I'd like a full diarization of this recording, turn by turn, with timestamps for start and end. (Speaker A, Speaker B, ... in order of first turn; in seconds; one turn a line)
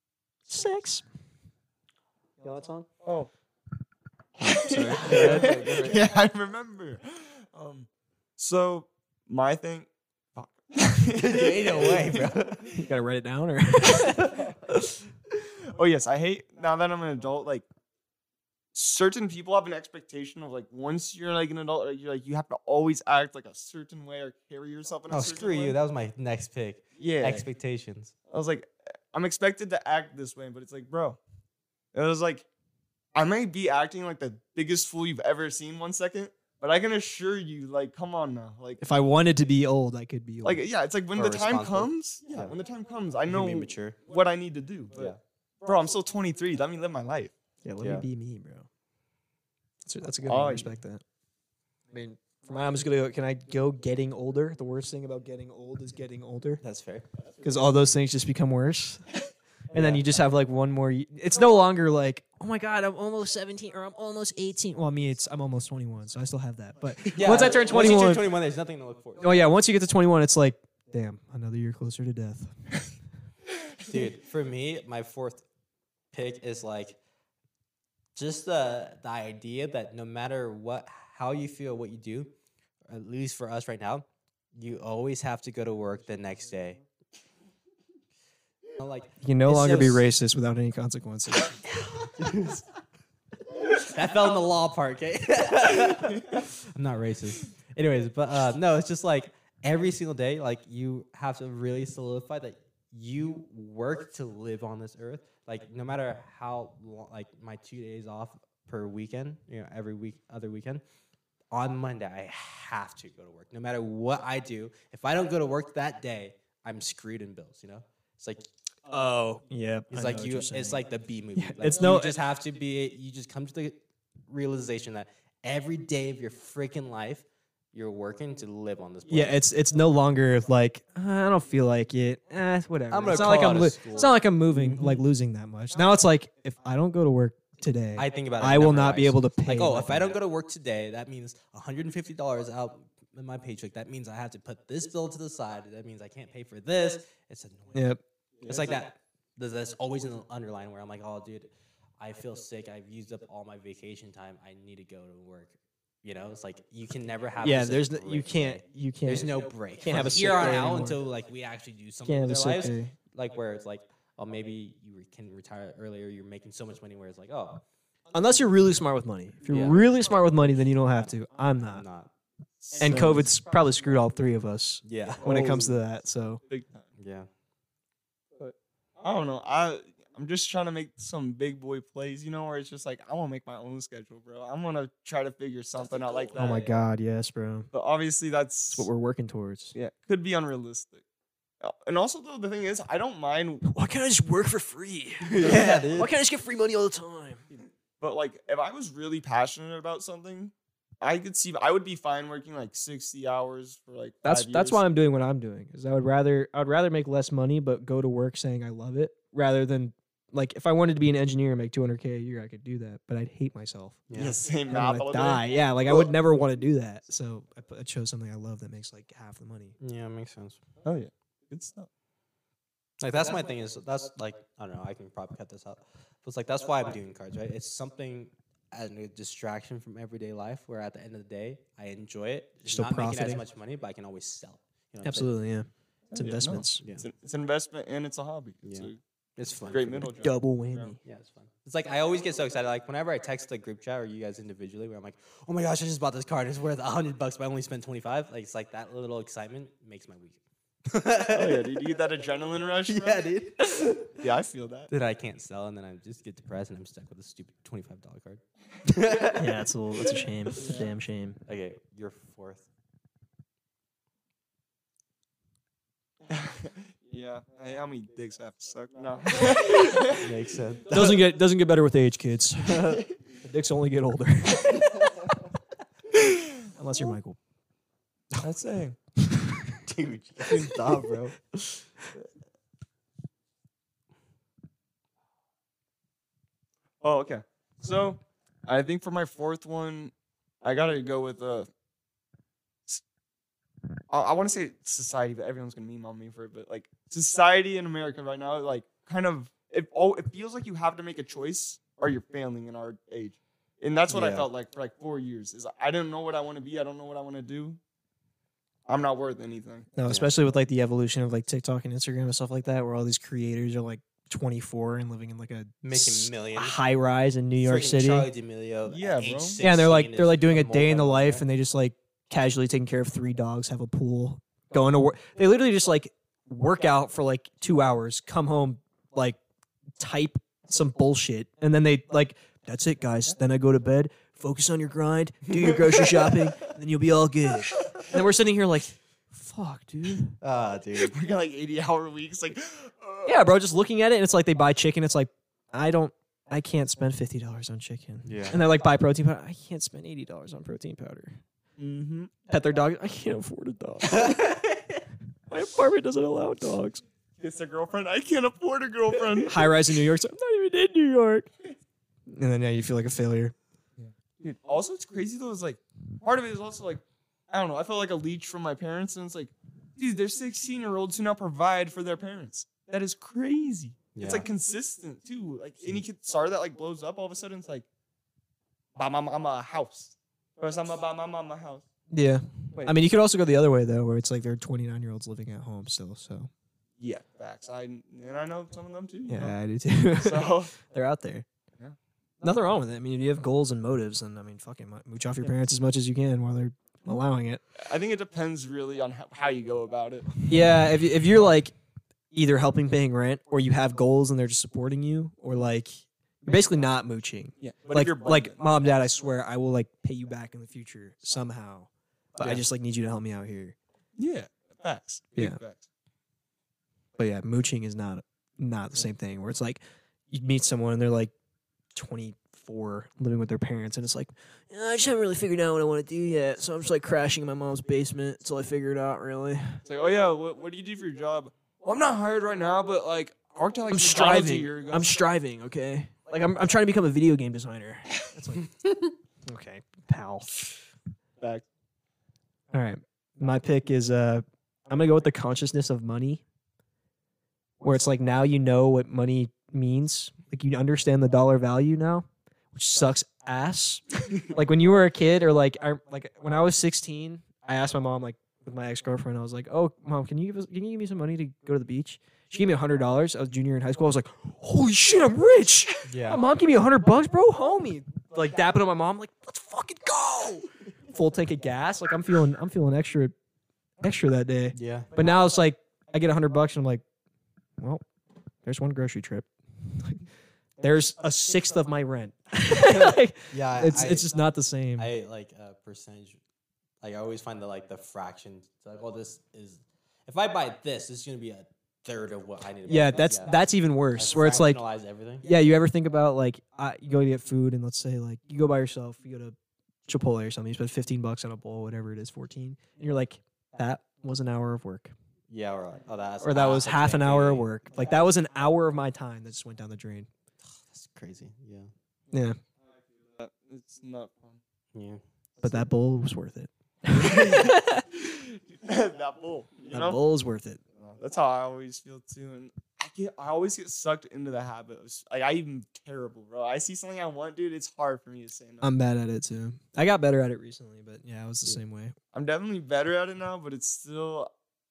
Speaker A: 0.5-1.0
Speaker A: 2.4-2.9
Speaker B: 3.0-3.3
Speaker A: 4.4-6.0
Speaker B: 4.4-12.4
Speaker C: 5.0-6.0
Speaker C: 11.1-12.8
Speaker A: 12.7-15.0
Speaker B: 15.7-17.7
Speaker B: 18.7-25.8
Speaker C: 25.1-28.1
Speaker B: 27.0-27.4
Speaker B: 28.3-31.2
Speaker B: 31.9-32.5
Speaker B: 33.1-38.8
Speaker A: 38.8-40.6
Speaker B: 40.4-47.4
Speaker C: 41.1-42.5
Speaker C: 43.3-44.0
Speaker A: 47.6-48.7
Speaker C: 47.8-48.1
Speaker A: 49.9-51.0
Speaker B: 50.2-50.7
Speaker A: 51.9-56.6
Speaker C: 56.6-57.1
Speaker A: 57.4-59.1
Speaker A: 59.7-68.3
Speaker C: 59.7-60.2
Speaker C: 67.1-69.5
Speaker B: 67.3-67.6
Speaker A: 69.2-72.5
Speaker C: 73.8-75.4
Speaker C: 76.1-77.0
Speaker C: 78.2-82.3
Speaker C: 82.9-86.8
Speaker C: 88.8-90.0
Speaker A: 89.2-91.7
Speaker C: 91.7-92.7
Speaker C: 93.7-110.8
Speaker C: 111.5-118.5
Speaker A: 118.9-120.8
Speaker C: 119.9-129.4
Speaker A: 121.4-122.2
Speaker A: 129.1-140.2
Speaker C: 132.9-135.0
Speaker C: 138.0-147.9
Speaker A: 147.7-148.0
Speaker B: 148.4-148.8
Speaker C: 148.4-167.6
Speaker A: 157.4-161.0
Speaker A: 162.0-162.9
Speaker A: 168.1-171.8
Speaker C: 169.5-172.1
Speaker B: 172.6-173.3
Speaker A: 172.8-176.4
Speaker C: 172.8-173.2
Speaker C: 174.8-175.6
Speaker B: 175.2-175.8
Speaker B: 176.5-176.8
Speaker C: 177.0-177.3
Speaker B: 178.4-186.7
Speaker C: 185.8-186.6
Speaker A: 186.4-187.7
Speaker B: 187.7-188.9
Speaker A: 188.7-189.7
Speaker B: 189.7-191.0
Speaker B: 191.6-193.7
Speaker A: 193.7-197.4
Speaker C: 195.2-196.1
Speaker B: 195.4-195.8
Speaker B: 197.5-204.8
Speaker A: 204.2-214.1
Speaker C: 214.1-214.4
Speaker B: 214.2-216.1
Speaker A: 214.7-219.8
Speaker C: 219.8-220.6
Speaker B: 220.8-221.9
Speaker C: 223.0-235.3
Speaker A: 232.7-233.4
Speaker A: 235.0-236.8
Speaker B: 236.1-239.0
Speaker C: 236.8-237.1
Speaker C: 238.6-240.1
Speaker B: 239.7-241.0
Speaker A: 240.2-241.0
Speaker C: 241.0-251.8
Speaker B: 251.3-253.3
Speaker C: 252.8-254.1
Speaker B: 254.1-254.9
Speaker C: 254.9-259.6
Speaker A: 259.3-261.4
Speaker B: 260.5-260.9
Speaker C: 261.5-262.7
Speaker B: 266.3-270.2
Speaker C: 270.1-271.2
Speaker A: 270.9-275.1
Speaker A: 276.8-277.4
Speaker B: 278.4-279.0
Speaker A: 279.3-279.6
Speaker C: 279.8-281.7
Speaker B: 287.0-290.1
Speaker B: 290.6-291.7
Speaker B: 294.1-307.8
Speaker C: 304.1-304.5
Speaker B: 308.9-309.9
Speaker A: 309.9-318.3
Speaker C: 310.1-310.3
Speaker C: 315.8-316.8
Speaker C: 317.6-321.4
Speaker B: 318.9-319.6
Speaker A: 319.6-329.4
Speaker A: 330.0-340.4
Speaker C: 335.5-335.8
Speaker C: 340.4-341.1
Speaker B: 340.9-343.3
Speaker A: 343.3-351.4
Speaker C: 348.2-348.6
Speaker B: 351.8-352.4
Speaker A: 352.5-354.6
Speaker C: 354.1-355.0
Speaker A: 355.5-357.0
Speaker B: 357.4-359.8
Speaker A: 359.4-361.5
Speaker A: 362.3-363.6
Speaker B: 364.0-377.9
Speaker C: 374.1-374.5
Speaker B: 379.0-381.9
Speaker A: 382.1-386.5
Speaker B: 382.7-383.0
Speaker B: 387.0-389.5
Speaker A: 389.3-391.5
Speaker B: 390.2-390.8
Speaker A: 392.4-397.6
Speaker B: 397.8-400.5
Speaker A: 400.5-401.7
Speaker A: 402.3-413.8
Speaker B: 407.6-408.6
Speaker B: 414.2-415.9
Speaker A: 417.2-421.3
Speaker A: 421.9-429.8
Speaker B: 429.9-435.2
Speaker A: 433.9-438.7
Speaker A: 439.5-440.5
Speaker B: 441.4-441.6
Speaker A: 442.7-446.4
Speaker A: 447.8-473.3
Speaker C: 466.1-466.4
Speaker A: 474.0-477.0
Speaker C: 474.7-475.1
Speaker A: 478.6-480.2
Speaker A: 480.8-485.1
Speaker C: 482.9-484.3
Speaker C: 485.0-486.4
Speaker C: 487.0-495.5
Speaker A: 492.9-494.8
Speaker A: 495.4-499.6
Speaker A: 500.1-505.1
Speaker C: 505.5-507.7
Speaker A: 506.4-510.3
Speaker C: 510.8-511.9
Speaker A: 512.3-512.6
Speaker B: 513.4-514.6
Speaker C: 514.9-515.2
Speaker A: 515.6-518.0
Speaker B: 517.1-520.2
Speaker A: 519.9-520.8
Speaker B: 521.0-528.9
Speaker A: 528.8-532.1
Speaker B: 532.3-534.5